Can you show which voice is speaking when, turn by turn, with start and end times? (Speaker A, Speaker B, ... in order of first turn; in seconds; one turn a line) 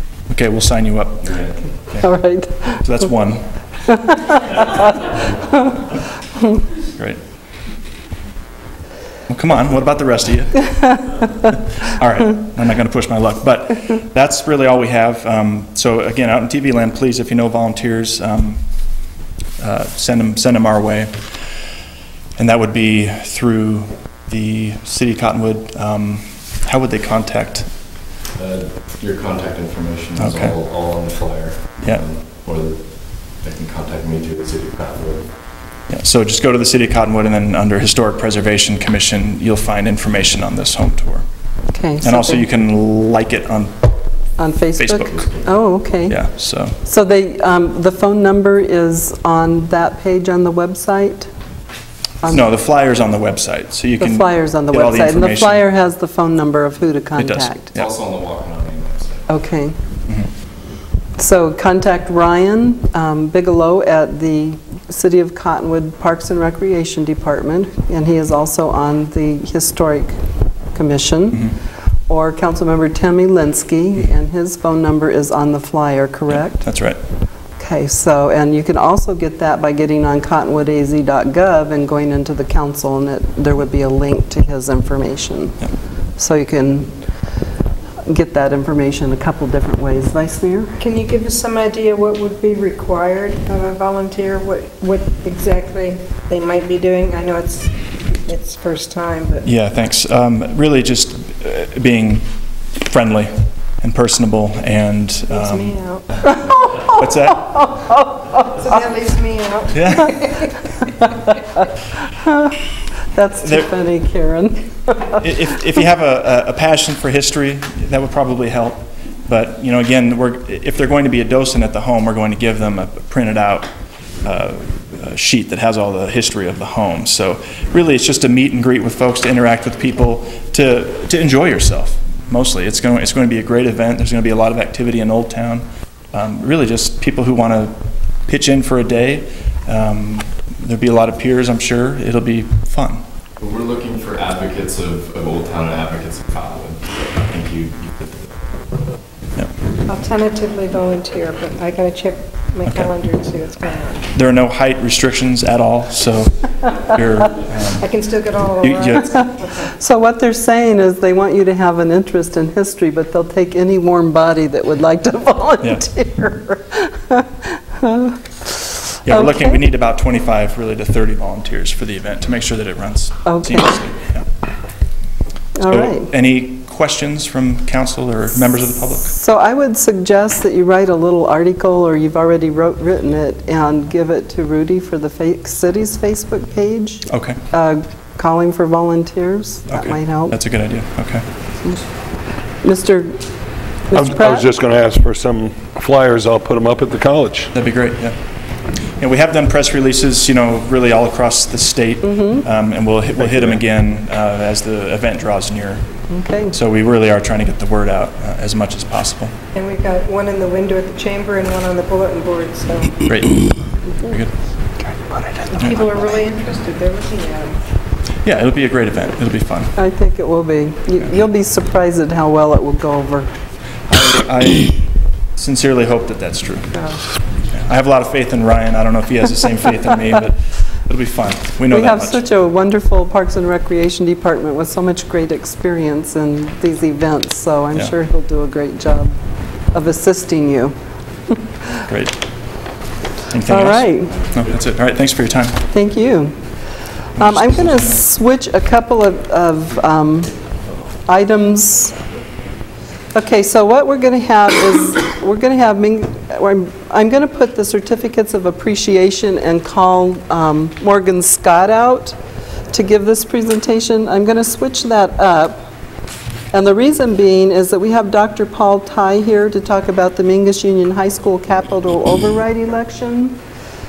Speaker A: 0.3-2.1
Speaker B: 1.2-1.6
Speaker C: 2.0-2.9
Speaker A: 2.8-3.5
Speaker C: 3.8-5.8
Speaker A: 9.3-18.6
Speaker A: 19.6-21.1
Speaker A: 22.4-27.7
Speaker B: 28.4-35.4
Speaker A: 30.2-30.6
Speaker A: 35.9-41.2
Speaker C: 41.7-42.4
Speaker A: 42.0-43.8
Speaker C: 44.4-46.2
Speaker A: 44.8-45.3
Speaker A: 46.1-46.8
Speaker C: 46.8-51.3
Speaker A: 52.2-55.6
Speaker C: 54.0-57.7
Speaker A: 57.2-57.9
Speaker B: 57.8-59.3
Speaker C: 59.3-59.8
Speaker C: 61.2-70.2
Speaker C: 70.7-71.6
Speaker C: 72.1-76.6
Speaker A: 76.3-77.0
Speaker C: 77.6-85.6
Speaker C: 86.2-86.9
Speaker C: 88.0-90.8
Speaker D: 90.8-99.5
Speaker A: 99.4-105.7
Speaker D: 105.3-106.0
Speaker C: 106.2-108.6
Speaker A: 106.8-107.7
Speaker D: 108.6-110.6
Speaker A: 109.7-110.3
Speaker C: 112.2-112.5
Speaker C: 113.1-115.2
Speaker A: 115.2-123.7
Speaker A: 124.2-137.8
Speaker A: 138.3-143.0
Speaker B: 143.4-148.4
Speaker D: 149.9-154.1
Speaker A: 154.1-157.9
Speaker D: 157.8-159.7
Speaker A: 158.6-159.2
Speaker C: 159.1-169.6
Speaker A: 169.1-174.3
Speaker C: 173.3-173.8
Speaker C: 175.6-176.1
Speaker A: 175.7-179.2
Speaker C: 179.1-190.4
Speaker A: 187.1-187.4
Speaker A: 189.7-191.2
Speaker C: 192.6-193.2
Speaker C: 193.9-194.5
Speaker E: 193.9-197.5
Speaker A: 197.5-198.2
Speaker A: 199.0-205.8
Speaker C: 202.0-202.5
Speaker C: 206.1-206.6
Speaker A: 206.5-209.3
Speaker D: 209.6-213.1
Speaker A: 213.1-213.5
Speaker A: 214.0-214.3
Speaker C: 214.8-215.5
Speaker D: 215.5-217.6
Speaker A: 218.2-219.8
Speaker C: 219.8-223.3
Speaker A: 223.9-224.8
Speaker A: 225.4-226.7
Speaker A: 227.5-232.2
Speaker C: 231.7-239.2
Speaker C: 239.7-240.7
Speaker A: 241.9-242.2
Speaker A: 243.3-245.7
Speaker C: 243.5-244.1
Speaker C: 245.7-246.3
Speaker A: 247.2-248.0
Speaker C: 247.2-250.3
Speaker C: 251.1-251.9
Speaker C: 253.1-262.2
Speaker C: 262.7-265.6
Speaker C: 266.5-273.4